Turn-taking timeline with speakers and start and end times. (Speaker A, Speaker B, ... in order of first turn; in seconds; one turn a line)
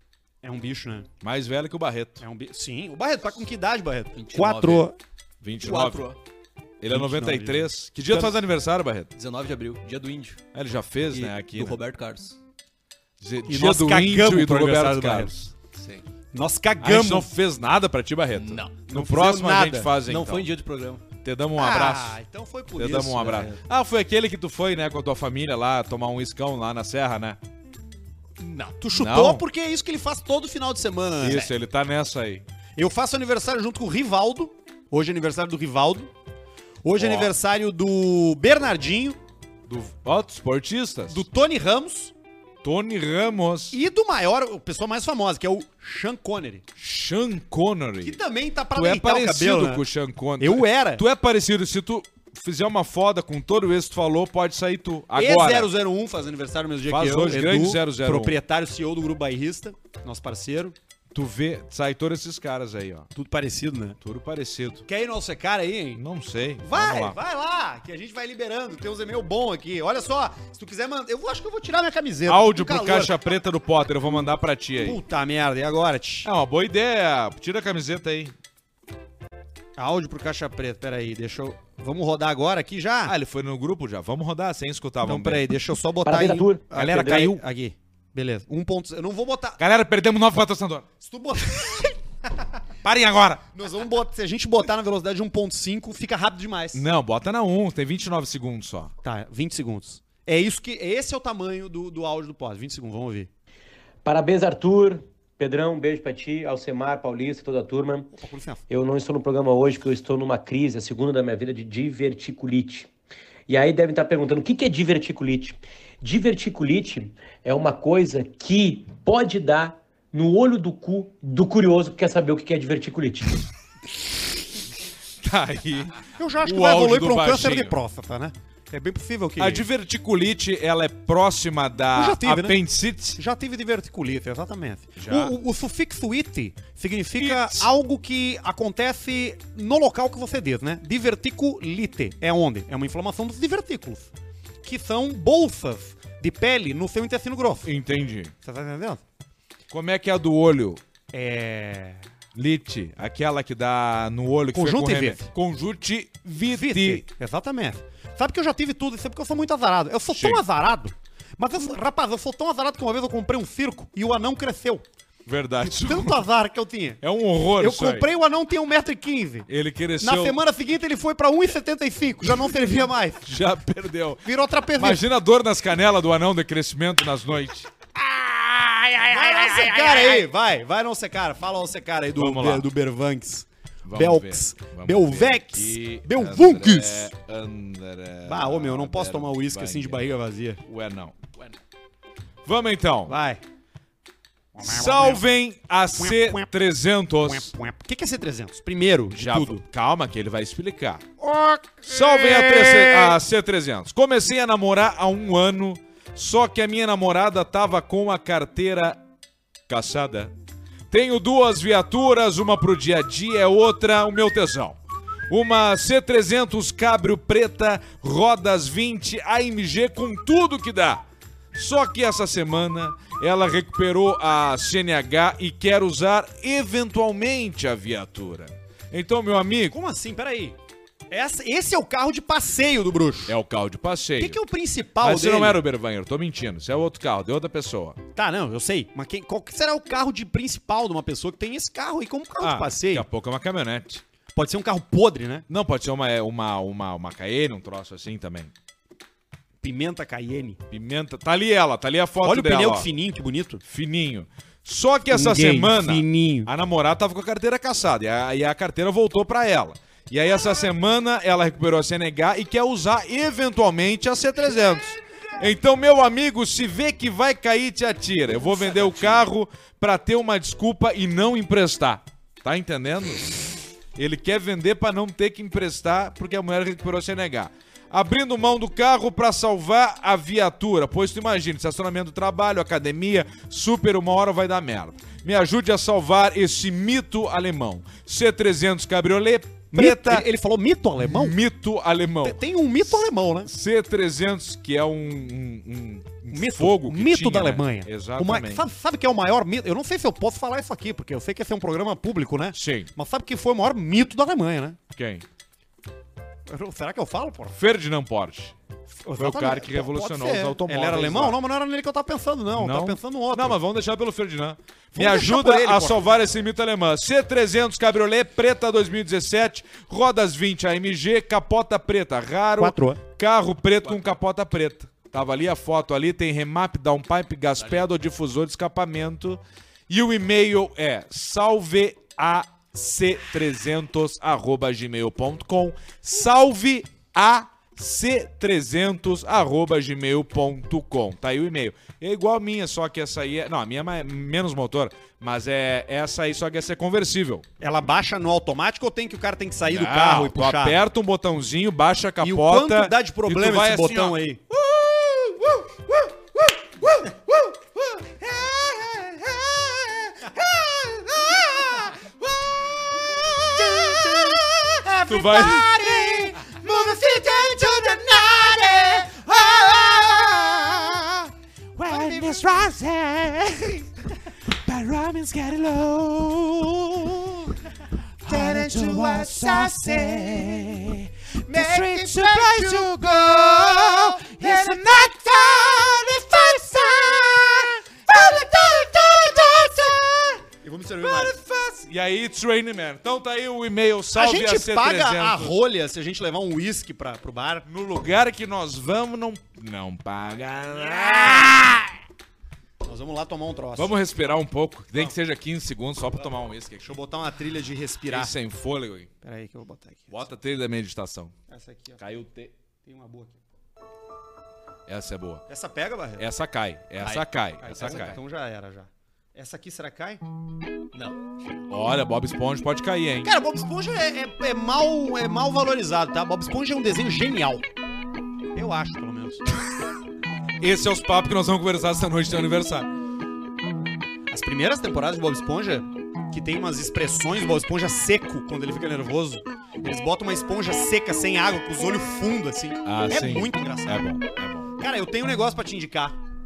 Speaker A: 0.4-1.1
Speaker B: 1.2-2.2
Speaker A: 2.2-5.0
Speaker C: 4.2-4.9
Speaker B: 5.4-6.1
Speaker C: 5.6-6.2
Speaker B: 6.8-9.1
Speaker A: 6.9-8.3
Speaker C: 9.2-10.4
Speaker B: 10.5-11.8
Speaker C: 11.1-12.4
Speaker B: 13.2-15.5
Speaker A: 13.5-15.3
Speaker C: 15.8-16.1
Speaker A: 16.3-17.3
Speaker B: 16.8-20.5
Speaker C: 18.4-18.8
Speaker A: 18.9-19.9
Speaker C: 20.0-21.0
Speaker B: 21.2-22.2
Speaker A: 21.6-23.5
Speaker B: 22.8-27.4
Speaker C: 23.3-23.6
Speaker C: 28.4-28.8
Speaker A: 28.8-31.5
Speaker B: 28.9-29.4
Speaker B: 31.2-32.5
Speaker A: 32.8-36.1
Speaker A: 36.8-39.2
Speaker B: 37.0-37.3
Speaker B: 39.7-41.3
Speaker A: 41.1-42.1
Speaker B: 42.6-43.8
Speaker A: 43.7-46.6
Speaker B: 46.8-48.2
Speaker A: 48.0-49.9
Speaker B: 48.7-55.7
Speaker A: 50.4-51.0
Speaker A: 55.1-60.8
Speaker B: 56.9-58.4
Speaker B: 61.1-63.1
Speaker A: 63.1-64.0
Speaker B: 64.0-64.9
Speaker A: 64.9-66.0
Speaker B: 66.0-67.2
Speaker A: 66.6-73.2
Speaker B: 72.3-75.0
Speaker A: 74.8-76.3
Speaker B: 76.2-78.3
Speaker A: 79.8-83.1
Speaker B: 83.0-85.5
Speaker A: 85.0-89.6
Speaker D: 86.0-87.4
Speaker B: 89.6-90.9
Speaker A: 91.0-92.0
Speaker B: 92.8-93.5
Speaker A: 93.5-96.8
Speaker B: 96.7-98.9
Speaker A: 99.0-103.3
Speaker D: 104.0-108.1
Speaker A: 108.1-108.6
Speaker D: 108.7-112.9
Speaker D: 113.5-123.4
Speaker B: 125.2-127.8
Speaker A: 126.2-129.7
Speaker B: 129.4-133.2
Speaker A: 131.9-144.1
Speaker B: 135.0-135.4
Speaker B: 137.2-137.7
Speaker A: 144.6-147.7
Speaker B: 147.7-148.3
Speaker A: 148.4-149.0
Speaker B: 149.7-150.8
Speaker A: 151.1-152.0
Speaker B: 152.3-157.1
Speaker A: 154.5-155.3
Speaker A: 156.5-164.8
Speaker B: 160.1-160.4
Speaker B: 165.3-166.2
Speaker A: 165.6-167.0
Speaker B: 167.0-168.1
Speaker A: 167.6-169.5
Speaker B: 169.5-170.4
Speaker A: 170.0-173.3
Speaker B: 173.2-180.3
Speaker A: 174.2-175.0
Speaker A: 179.1-187.1
Speaker B: 182.2-182.7
Speaker B: 183.8-190.1
Speaker A: 188.3-190.6
Speaker B: 190.7-191.2
Speaker B: 192.4-193.2
Speaker A: 193.1-193.4
Speaker A: 194.6-195.2
Speaker B: 194.6-197.5
Speaker A: 196.0-196.5
Speaker A: 197.3-199.6
Speaker B: 199.1-201.1
Speaker A: 201.2-203.2
Speaker B: 201.9-209.0
Speaker B: 209.7-210.3
Speaker B: 210.9-214.8
Speaker B: 215.3-229.8
Speaker A: 229.7-230.6
Speaker A: 231.1-233.4
Speaker B: 233.3-234.4
Speaker A: 234.2-235.6
Speaker B: 235.0-238.0
Speaker A: 238.2-243.1
Speaker B: 242.4-244.0
Speaker A: 244.3-245.5
Speaker B: 245.5-248.5
Speaker A: 249.6-250.6
Speaker B: 250.7-252.9
Speaker A: 252.2-253.6
Speaker B: 253.6-273.3
Speaker A: 255.1-256.5
Speaker B: 273.9-290.3
Speaker A: 289.7-291.4
Speaker B: 291.0-298.6
Speaker A: 292.2-293.5
Speaker A: 296.3-304.8
Speaker B: 302.5-302.9
Speaker B: 304.9-305.2
Speaker A: 306.5-307.6
Speaker B: 307.5-308.6
Speaker A: 309.0-313.6
Speaker B: 309.2-311.4
Speaker B: 312.5-347.5
Speaker A: 314.9-316.1
Speaker A: 322.6-323.0
Speaker A: 347.6-350.8
Speaker B: 349.7-377.7
Speaker A: 352.2-354.4
Speaker A: 363.5-369.3
Speaker A: 371.9-372.4
Speaker B: 378.2-390.4
Speaker A: 378.2-380.7
Speaker A: 381.5-389.8
Speaker A: 390.6-391.4
Speaker B: 391.0-395.6
Speaker A: 394.1-397.7
Speaker B: 397.7-401.9
Speaker A: 400.9-401.6
Speaker A: 402.8-403.9
Speaker B: 403.8-407.0
Speaker A: 406.8-408.3
Speaker B: 408.1-409.1
Speaker A: 409.2-410.3
Speaker B: 410.1-411.3
Speaker A: 411.5-412.0
Speaker B: 412.0-412.5
Speaker A: 412.8-413.4
Speaker B: 414.9-415.4
Speaker A: 415.5-416.2
Speaker B: 416.2-418.2
Speaker C: 417.0-417.2
Speaker A: 417.6-420.2
Speaker C: 417.8-418.1
Speaker C: 420.9-421.2
Speaker B: 421.7-423.3
Speaker A: 423.2-427.6
Speaker A: 428.6-429.6
Speaker B: 430.6-432.9
Speaker A: 434.3-444.1
Speaker B: 442.9-444.7
Speaker A: 444.8-446.2